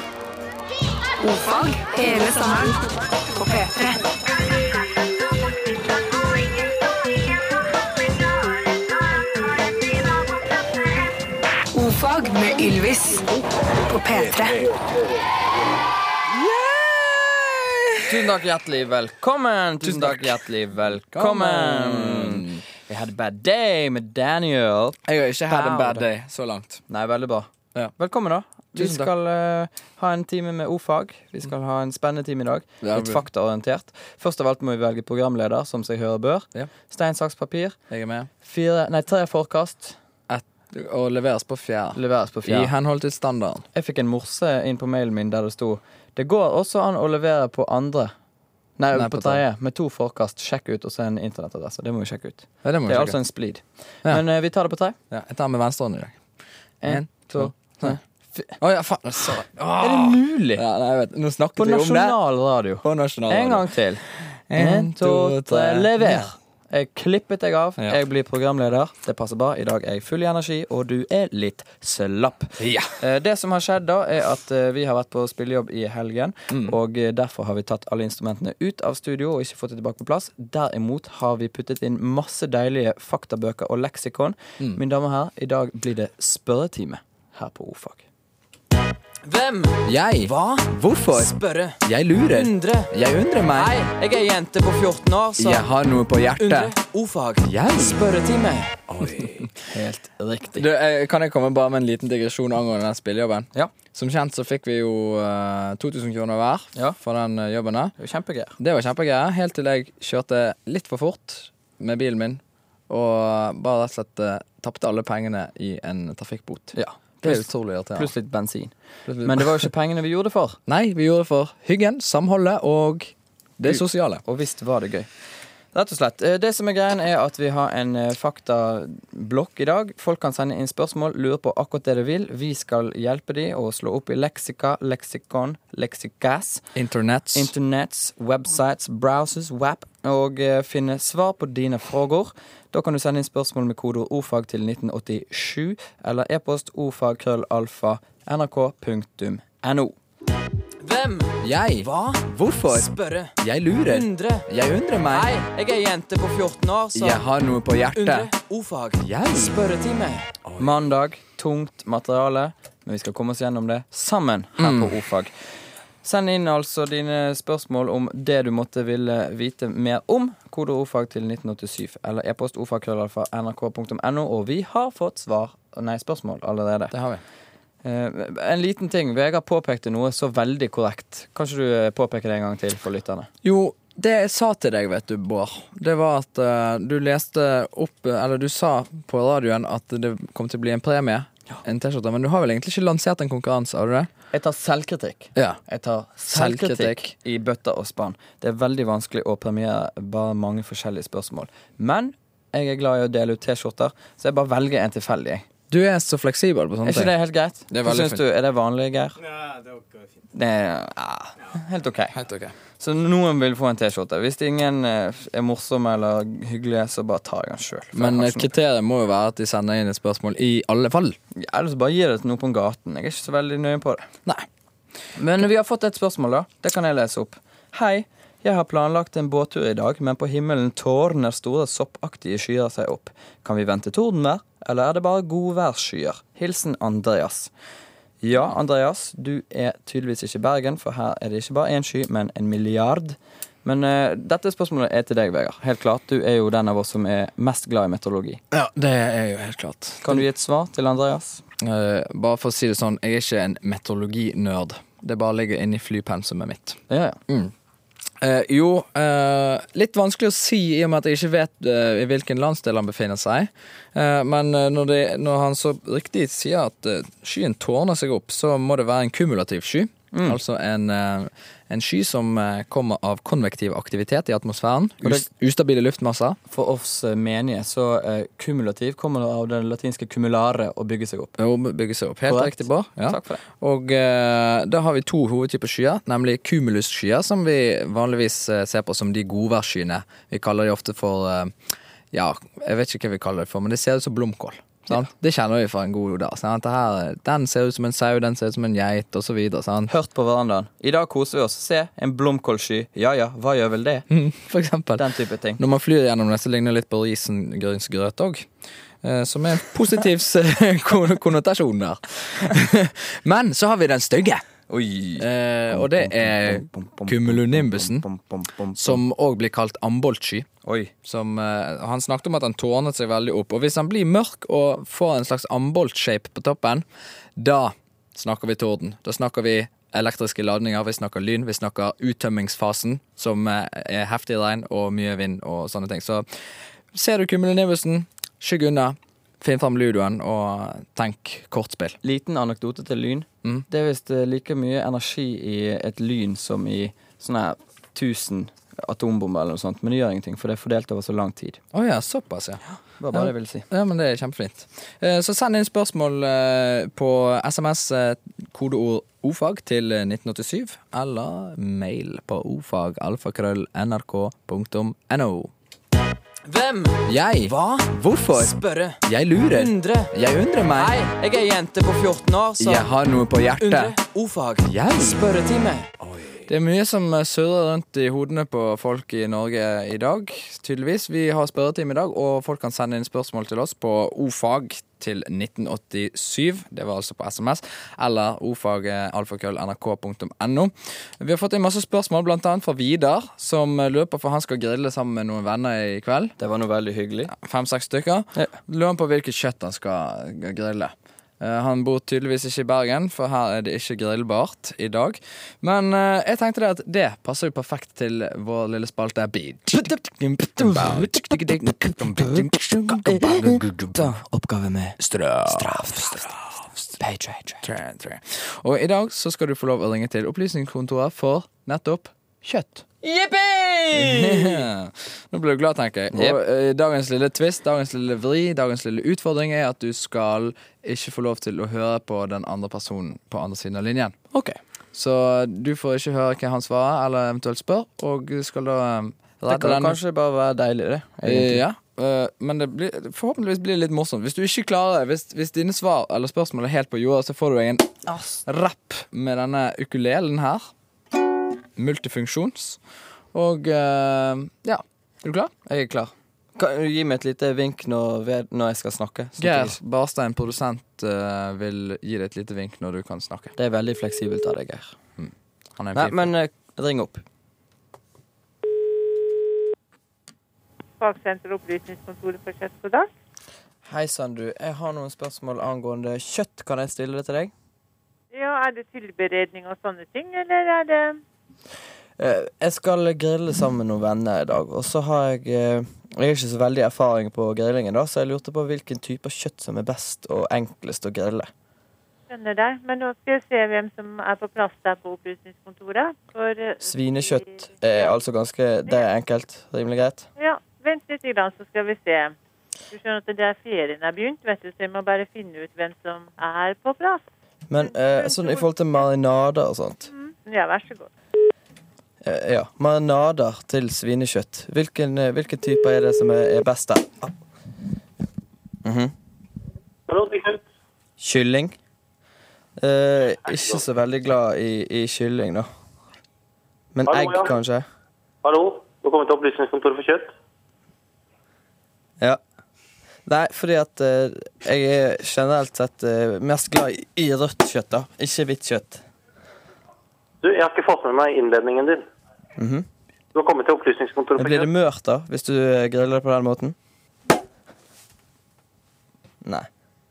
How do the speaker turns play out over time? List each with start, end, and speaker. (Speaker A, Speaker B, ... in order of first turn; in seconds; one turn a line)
Speaker A: 1.2-2.8
Speaker A: 3.3-4.0
Speaker A: 11.7-13.3
Speaker A: 13.9-14.7
Speaker B: 16.3-18.3
Speaker C: 18.0-26.1
Speaker B: 19.8-20.4
Speaker B: 21.1-22.6
Speaker B: 25.1-26.8
Speaker C: 26.9-37.8
Speaker B: 28.7-29.1
Speaker B: 32.8-33.2
Speaker B: 37.9-38.3
Speaker C: 38.4-40.0
Speaker B: 40.3-43.6
Speaker C: 41.9-42.7
Speaker C: 43.7-48.1
Speaker C: 48.8-55.0
Speaker B: 48.9-49.4
Speaker B: 52.6-53.2
Speaker B: 55.1-56.1
Speaker C: 56.8-58.5
Speaker B: 56.8-58.0
Speaker B: 58.6-62.2
Speaker C: 59.2-60.6
Speaker C: 61.5-64.0
Speaker B: 62.8-63.7
Speaker B: 64.5-66.3
Speaker C: 64.5-88.0
Speaker B: 72.6-72.9
Speaker C: 89.2-92.9
Speaker B: 89.8-93.7
Speaker C: 93.5-95.7
Speaker B: 95.4-96.7
Speaker C: 96.4-98.9
Speaker B: 97.4-98.0
Speaker B: 98.9-99.5
Speaker C: 99.7-100.7
Speaker B: 100.5-107.9
Speaker C: 108.0-108.5
Speaker B: 108.6-118.1
Speaker C: 116.7-118.7
Speaker B: 119.1-119.7
Speaker C: 119.2-120.6
Speaker B: 120.7-124.2
Speaker C: 123.6-125.1
Speaker C: 125.7-136.7
Speaker B: 136.7-137.5
Speaker C: 137.3-149.9
Speaker C: 150.8-154.5
Speaker B: 151.4-152.9
Speaker B: 153.4-155.3
Speaker C: 155.1-157.2
Speaker B: 156.9-158.3
Speaker C: 157.9-165.3
Speaker B: 159.0-159.5
Speaker B: 164.6-165.0
Speaker C: 166.0-176.9
Speaker B: 176.9-177.2
Speaker C: 177.8-183.3
Speaker B: 183.4-194.1
Speaker C: 194.3-205.4
Speaker B: 196.3-197.1
Speaker B: 205.7-207.1
Speaker C: 206.8-209.2
Speaker B: 207.7-208.2
Speaker C: 210.3-212.1
Speaker B: 212.1-212.5
Speaker C: 212.8-218.5
Speaker B: 217.9-221.2
Speaker C: 221.3-224.1
Speaker C: 225.2-237.5
Speaker C: 238.2-248.4
Speaker B: 248.5-250.2
Speaker C: 250.0-251.4
Speaker B: 251.6-257.5
Speaker C: 256.9-257.2
Speaker B: 258.2-276.4
Speaker C: 270.1-270.4
Speaker C: 276.5-281.3
Speaker B: 281.4-291.5
Speaker C: 282.3-283.4
Speaker B: 292.1-299.9
Speaker C: 299.9-304.1
Speaker B: 304.1-308.4
Speaker C: 305.0-305.6
Speaker B: 309.0-314.4
Speaker C: 314.7-319.0
Speaker B: 315.2-318.1
Speaker B: 318.8-320.5
Speaker C: 320.6-320.9
Speaker B: 321.0-326.8
Speaker B: 327.4-336.2
Speaker B: 336.9-342.0
Speaker C: 342.0-351.6
Speaker B: 351.7-365.5
Speaker C: 353.0-353.6
Speaker C: 366.4-370.1
Speaker B: 367.1-371.0
Speaker C: 370.7-372.9
Speaker B: 372.6-374.0
Speaker C: 373.6-375.9
Speaker B: 374.6-375.2
Speaker B: 376.2-396.3
Speaker C: 396.4-397.3
Speaker B: 397.3-409.9
Speaker C: 409.7-416.3
Speaker B: 410.6-414.2
Speaker B: 415.0-417.0
Speaker C: 417.0-417.6
Speaker B: 417.6-422.8
Speaker C: 423.0-424.7
Speaker B: 423.9-434.1
Speaker C: 426.1-426.4
Speaker C: 434.3-434.6
Speaker B: 434.9-440.0
Speaker C: 439.5-441.6
Speaker B: 441.2-450.7
Speaker C: 448.1-448.4
Speaker B: 451.8-452.8
Speaker B: 453.3-455.5
Speaker C: 455.6-459.8
Speaker B: 459.4-463.5
Speaker C: 463.6-464.9
Speaker B: 465.2-466.3
Speaker C: 465.9-467.2
Speaker D: 471.0-473.1
Speaker C: 473.8-477.5
Speaker D: 478.3-481.2
Speaker C: 482.2-491.5
Speaker D: 492.3-497.5
Speaker C: 496.8-500.3
Speaker D: 500.4-502.3
Speaker D: 502.9-507.2
Speaker C: 507.7-510.1
Speaker D: 507.8-508.7
Speaker D: 510.1-511.1
Speaker C: 512.2-517.3
Speaker C: 518.8-519.1
Speaker E: 520.1-520.6
Speaker C: 521.2-521.8
Speaker C: 522.8-525.7
Speaker C: 526.9-527.9
Speaker E: 527.1-527.5
Speaker E: 528.4-530.3
Speaker C: 533.2-539.0
Speaker E: 540.4-542.1
Speaker C: 542.6-542.9
Speaker E: 543.3-544.7
Speaker C: 544.4-546.8